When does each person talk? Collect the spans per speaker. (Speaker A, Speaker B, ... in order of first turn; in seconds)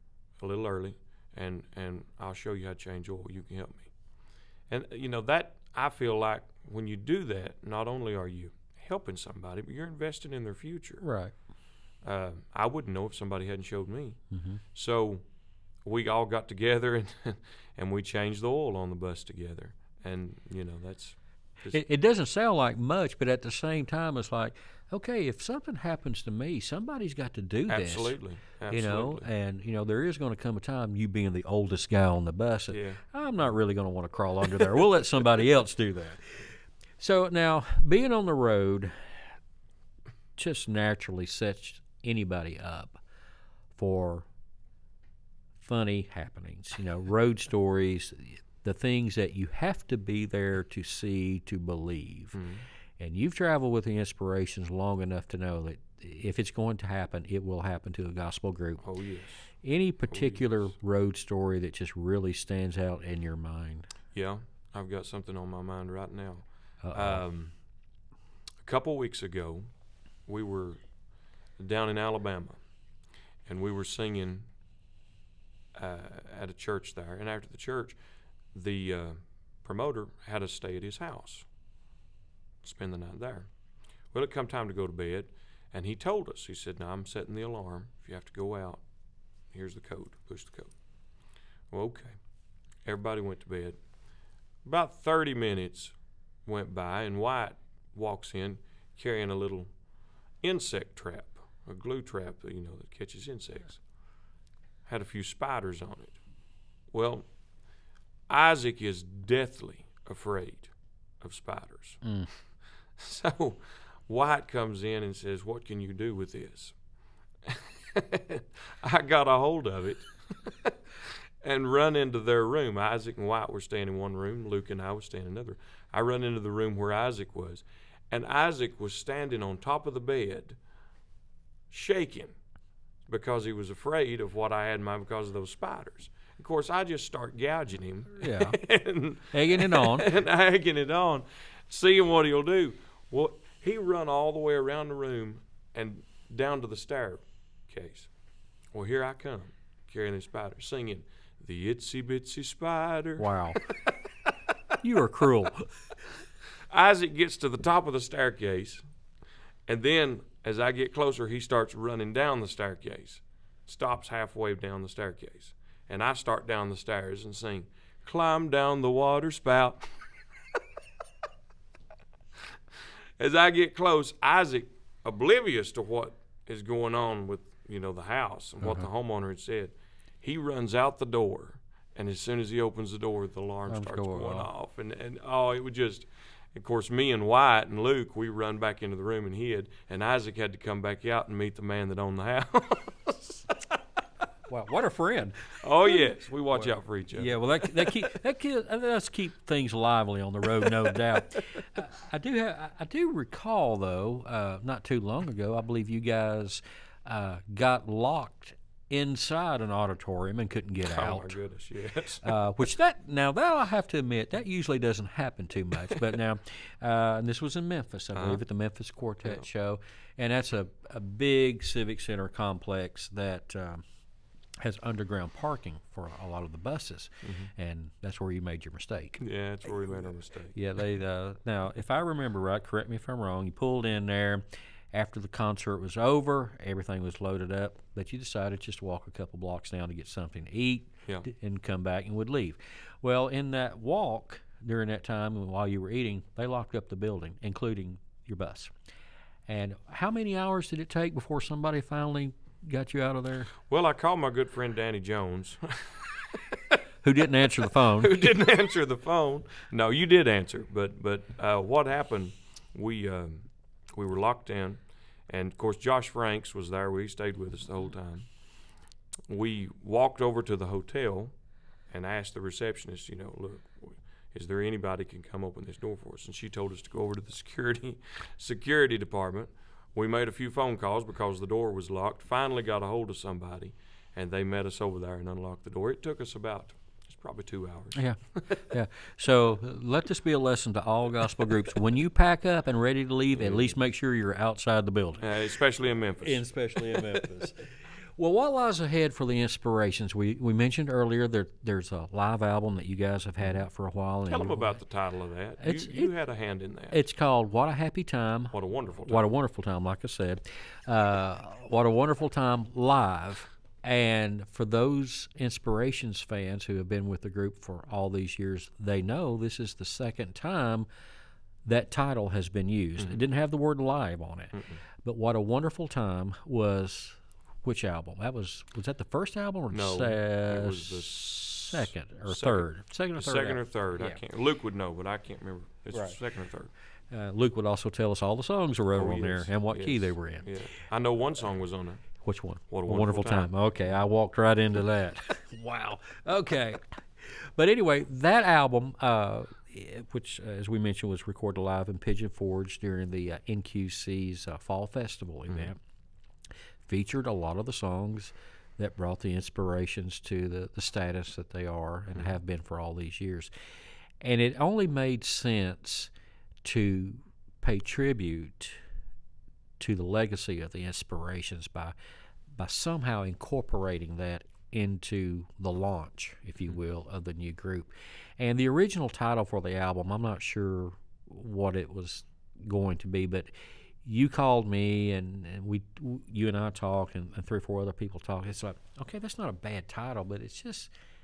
Speaker A: 0.4-3.9, 4.7-11.0, 12.0-14.2, 14.7-15.2, 15.8-21.8, 27.7-29.3, 32.7-33.0, 52.4-52.6, 58.8-59.5, 60.1-60.7, 64.1-67.5, 68.6-69.7, 70.3-70.8, 71.6-72.6, 73.5-74.5, 75.8-78.0, 78.5-81.5, 82.6-83.5, 84.1-88.8, 89.5-90.7, 91.7-92.2, 92.8-93.8, 94.7-99.7, 100.4-103.8, 104.9-106.2, 106.9-107.3, 108.3-112.0, 113.0-116.8, 117.4-130.6, 131.7-132.3, 133.1-148.1, 148.7-154.0, 156.7-158.8, 159.7-170.6, 173.2-193.8, 195.6-198.1, 200.6-200.9, 210.8-212.4, 218.2-218.4, 227.2-227.5, 229.2-230.6, 253.7-256.8, 257.8-268.3, 269.3-271.3, 271.9-288.6, 293.4-293.8, 295.2-297.3, 304.3-307.0, 308.5-309.3, 324.5-324.8, 329.7-336.7, 338.9-342.1, 342.7-343.5
Speaker B: 11.0-11.3, 14.3-14.6, 21.7-39.2, 40.4-43.0, 43.7-44.3, 45.6-52.4, 53.0-58.8, 59.6-63.9, 66.8-67.2, 112.0-112.3, 138.2-138.6, 139.3-140.1, 153.2-153.6, 154.8-155.7, 178.6-178.9, 183.7-184.5, 194.5-211.3, 212.2-223.8, 224.6-229.2, 230.5-248.7, 249.5-253.5, 257.0-258.2, 287.9-295.3, 296.2-304.8, 305.6-306.1, 306.9-320.9, 321.6-334.2, 335.9-336.2, 337.1-340.5, 342.2-355.8, 356.9-363.5, 364.2-366.1, 366.6-368.8, 369.8-371.9, 372.6-383.5, 384.0-390.9